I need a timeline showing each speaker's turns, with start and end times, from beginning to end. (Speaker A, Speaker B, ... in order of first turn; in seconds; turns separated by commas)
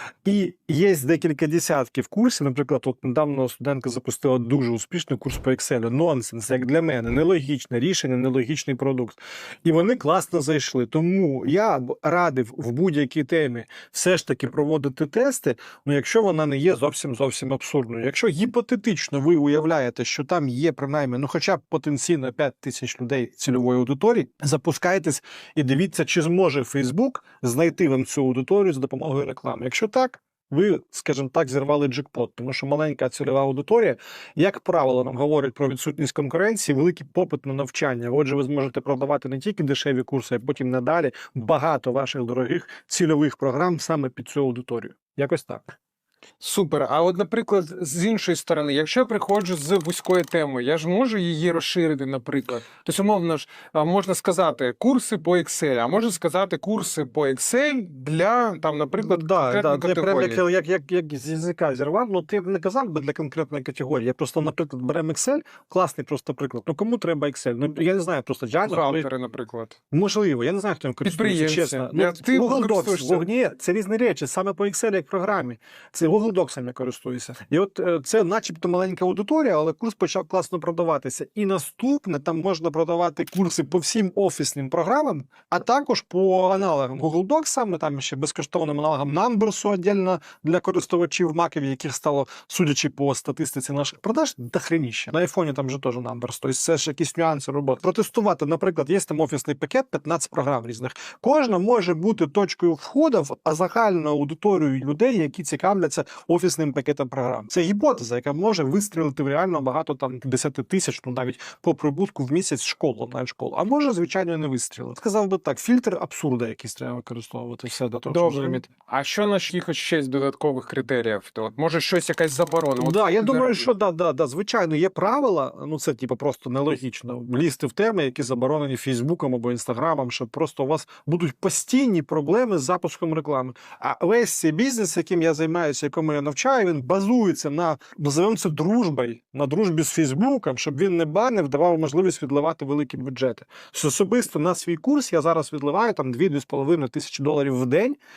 Speaker A: 0.2-45.7, Speaker B: 46.4-60.4, Speaker A: 59.0-69.1, Speaker B: 68.7-69.8, Speaker A: 69.9-118.7, Speaker B: 71.0-73.2, Speaker B: 118.1-123.7, Speaker A: 122.8-148.0